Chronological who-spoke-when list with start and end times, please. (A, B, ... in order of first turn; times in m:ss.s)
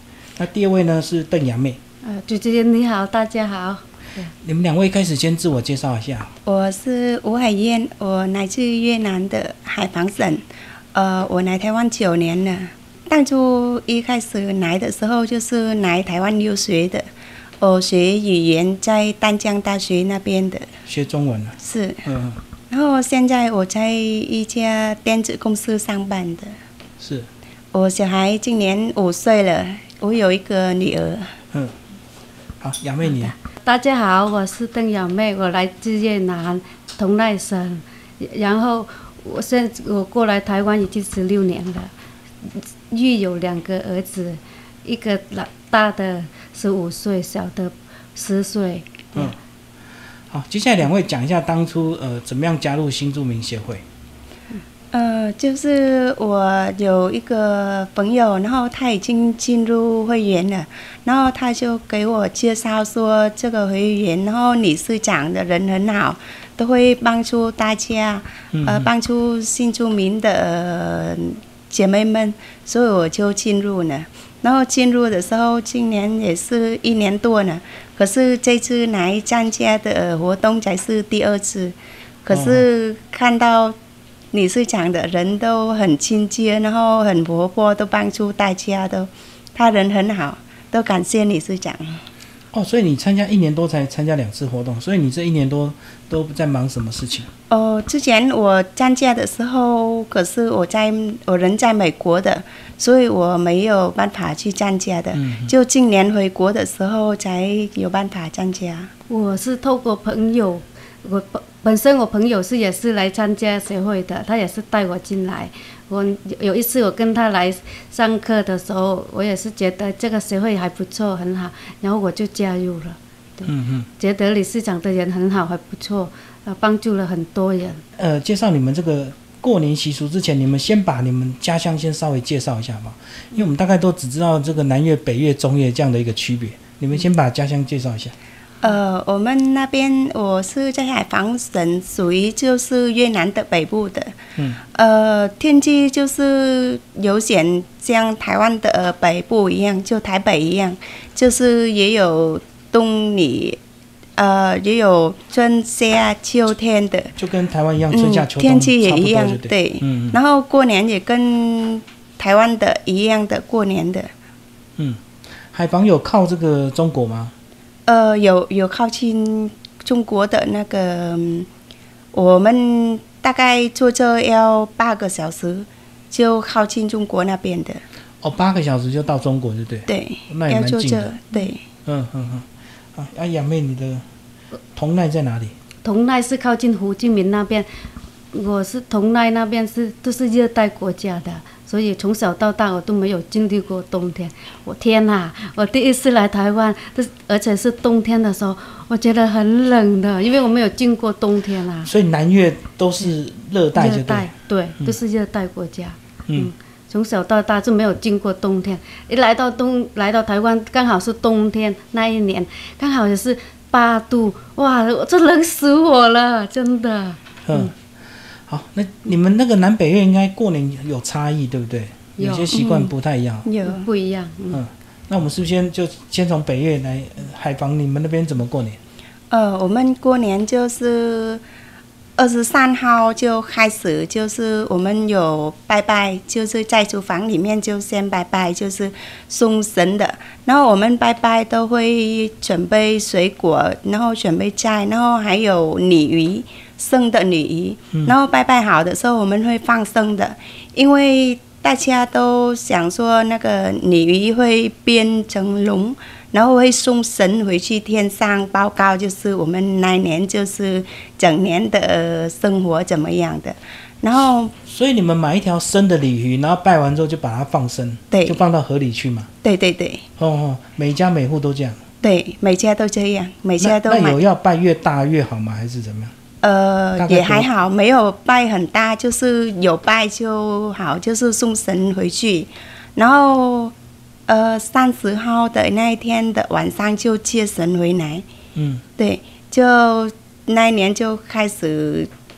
0:00.4-0:01.8 A
0:02.0-0:04.3 B
0:04.4-0:06.3 A
0:06.5-0:17.1 C
0:17.6-0:20.7 C
0:20.9-0:22.4 A
0:21.6-0:22.1 C
0:22.7-0:26.6 C
0:27.0-0:27.3 A
0:27.7-0:31.3 C
0:32.6-0:33.3 A
0:33.3-0:41.9 B
0:42.5-0:49.3 B
0:50.3-0:53.8 A
0:54.9-1:23.8 C
1:08.5-1:08.9 A
1:22.3-1:22.6 A
1:24.3-1:32.0 C
1:32.5-1:37.3 A
1:37.5-1:48.9 C
1:45.1-1:45.5 A
1:49.1-2:07.8 B
2:03.4-2:03.9 A
2:08.0-2:18.1 A
2:18.6-2:33.6 C
2:34.2-2:37.1 C
2:37.2-2:40.2 A
2:37.9-2:44.1 C
2:45.5-2:47.3 A
2:47.9-2:51.5 C
2:52.1-2:57.8 C
2:58.2-3:01.1 A
2:59.9-3:01.6 C
3:01.9-3:04.0 A
3:04.7-3:05.5 A
3:05.8-3:07.7 B
3:08.3-3:21.9 B
3:21.8-3:25.0 A
3:23.8-3:37.7 B
3:37.5-3:37.7 A
3:38.5-3:43.5 A
3:42.2-3:42.6 B
3:42.5-3:42.9 C
3:43.4-3:43.9 C
3:43.6-3:44.6 B
3:44.5-3:48.8 A
3:49.3-3:51.4 C
3:52.2-4:24.5 C
4:24.6-4:29.3 A
4:28.1-4:28.4 C
4:29.4-4:30.0 C
4:30.2-4:31.8 A
4:32.0-4:34.2 C
4:33.6-4:36.1 A
4:36.4-4:43.7 C
4:37.0-4:37.5 A
4:44.3-4:48.3 C
4:48.6-4:48.8 A
4:49.0-4:52.1 C